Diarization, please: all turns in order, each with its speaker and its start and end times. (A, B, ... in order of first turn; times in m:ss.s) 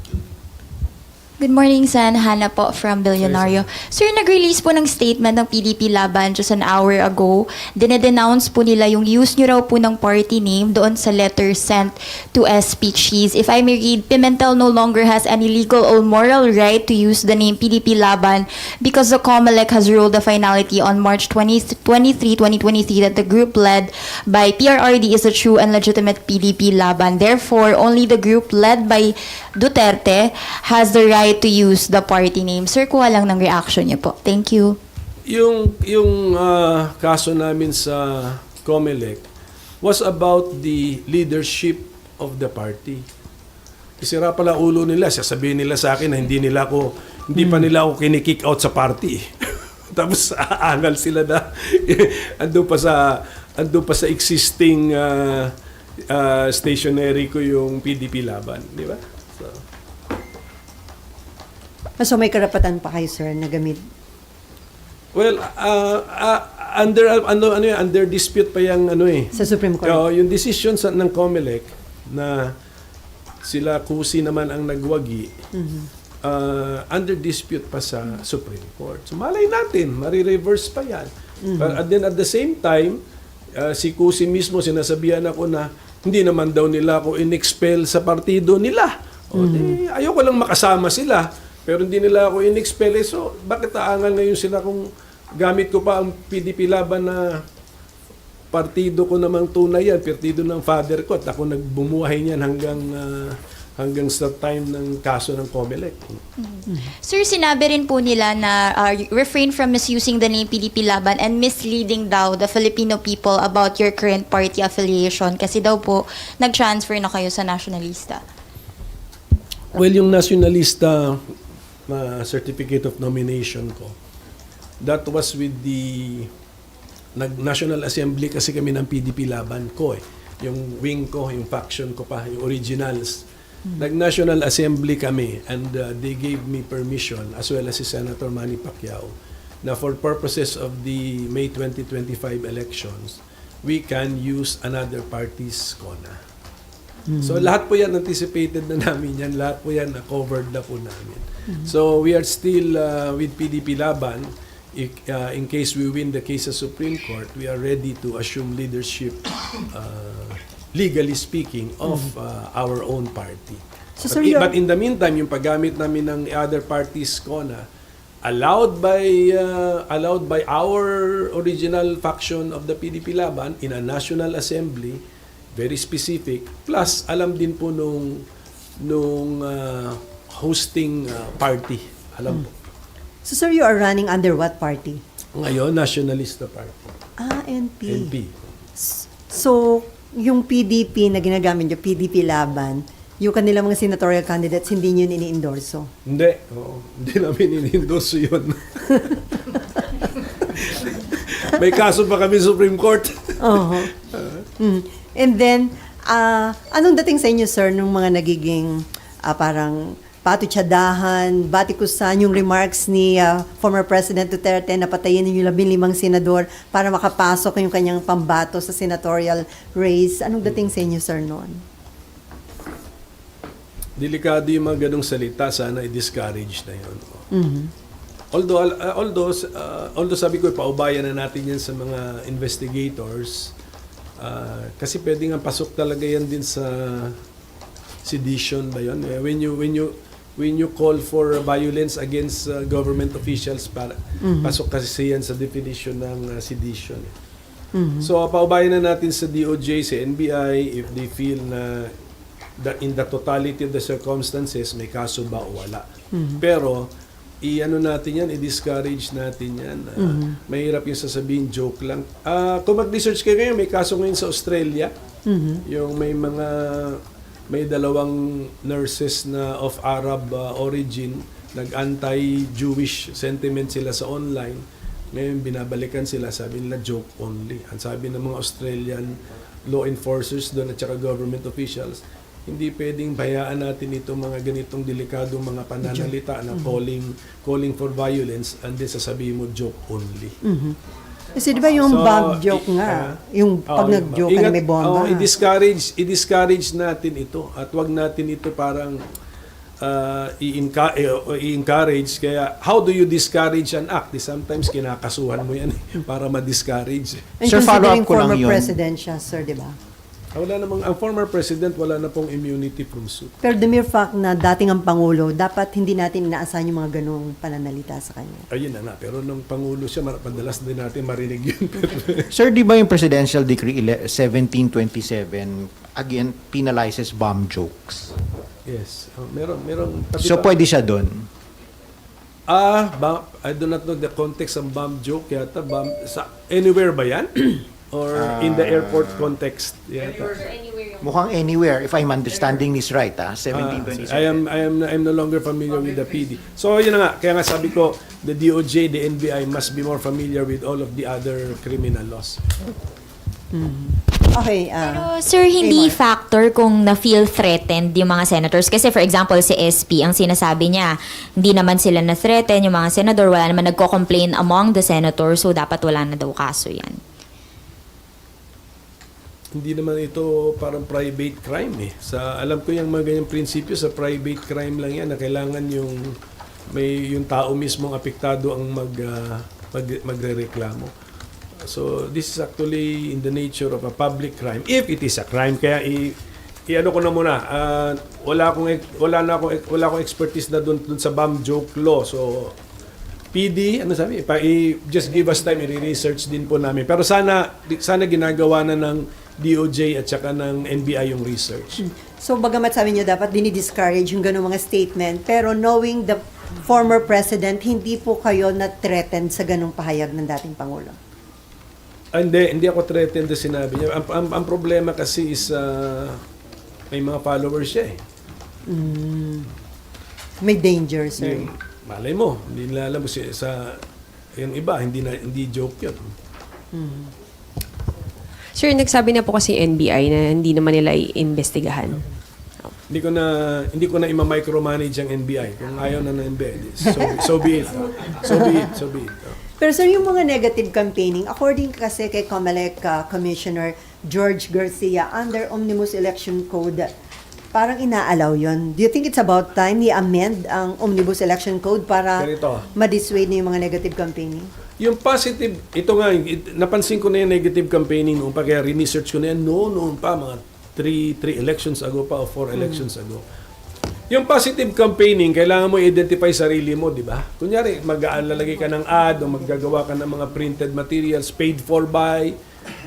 0:01.4-0:34.8 A
0:03.2-0:03.7 B
0:35.3-0:39.2 B
0:39.8-0:43.0 B
0:44.0-0:55.5 B
0:47.4-0:47.6 C
0:56.1-0:59.6 B
1:02.0-1:03.8 C
1:05.1-1:12.5 B
1:09.3-1:10.0 C
1:13.4-1:15.3 B
1:15.5-1:15.9 C
1:16.2-1:23.0 B
1:21.4-1:21.8 C
1:23.6-1:34.8 B
1:29.4-1:29.8 C
1:35.4-1:37.4 B
1:38.5-1:46.2 B
1:46.4-1:58.2 A
1:59.7-2:01.3 B
2:01.9-2:04.0 B
2:04.8-2:06.3 B
2:07.2-2:13.2 B
2:13.8-2:19.1 B
2:19.6-2:26.2 B
2:27.1-2:27.5 C
2:27.2-2:47.6 B
2:44.0-2:44.5 C
2:48.2-2:55.0 B
2:55.5-2:58.2 B
2:58.8-3:02.5 B
3:03.2-3:05.0 C
3:05.3-3:06.9 B
3:07.2-3:08.1 C
3:07.9-3:08.4 B
3:08.8-3:15.9 C
3:16.0-3:19.3 B
3:20.4-3:24.4 B
3:23.4-3:23.9 C
3:24.6-3:41.6 C
3:44.0-3:47.2 B
3:47.3-3:47.7 C
3:48.3-3:53.5 B
3:54.2-3:57.2 B
3:58.0-4:07.1 B
4:04.2-4:04.6 C
4:07.7-4:08.1 C
4:08.0-4:11.9 B
4:12.6-4:15.8 B
4:16.1-4:16.4 C
4:16.4-4:16.9 B
4:17.4-4:24.9 B
4:20.0-4:20.4 C
4:25.3-4:25.6 C
4:25.6-4:50.4 B
4:45.8-4:46.7 C
4:50.4-4:50.8 C
4:51.3-4:55.3 C
4:51.8-4:53.2 B
4:53.7-4:59.0 B
4:59.8-5:07.4 B
5:07.4-5:09.8 C
5:07.4-5:08.7 D
5:10.3-5:13.3 B
5:13.4-5:18.4 C
5:18.5-5:22.3 B
5:22.3-5:28.2 D
5:28.6-5:30.6 B
5:30.2-5:31.3 D
5:32.5-5:40.5 B
5:38.1-5:39.3 D
5:40.9-5:44.4 D
5:43.5-5:52.5 B
5:53.5-5:56.0 C
5:54.8-6:07.0 E
6:09.5-6:16.2 B
6:16.7-6:20.9 B
6:21.6-6:26.2 B
6:26.7-6:32.5 B
6:33.3-6:41.8 B
6:41.8-6:51.0 C
6:52.1-6:56.2 B
6:56.9-6:58.0 B
6:58.7-6:59.5 C
7:00.4-7:01.5 C
7:01.2-7:03.8 B
7:04.4-7:06.1 B
7:06.7-7:07.1 C
7:08.5-7:12.0 F
7:12.9-7:19.4 B
7:18.3-7:18.6 C
7:19.6-7:26.9 C
7:27.5-7:34.5 C
7:32.2-7:32.7 B
7:34.8-7:43.2 B
7:42.6-7:42.8 C
7:44.1-7:52.4 B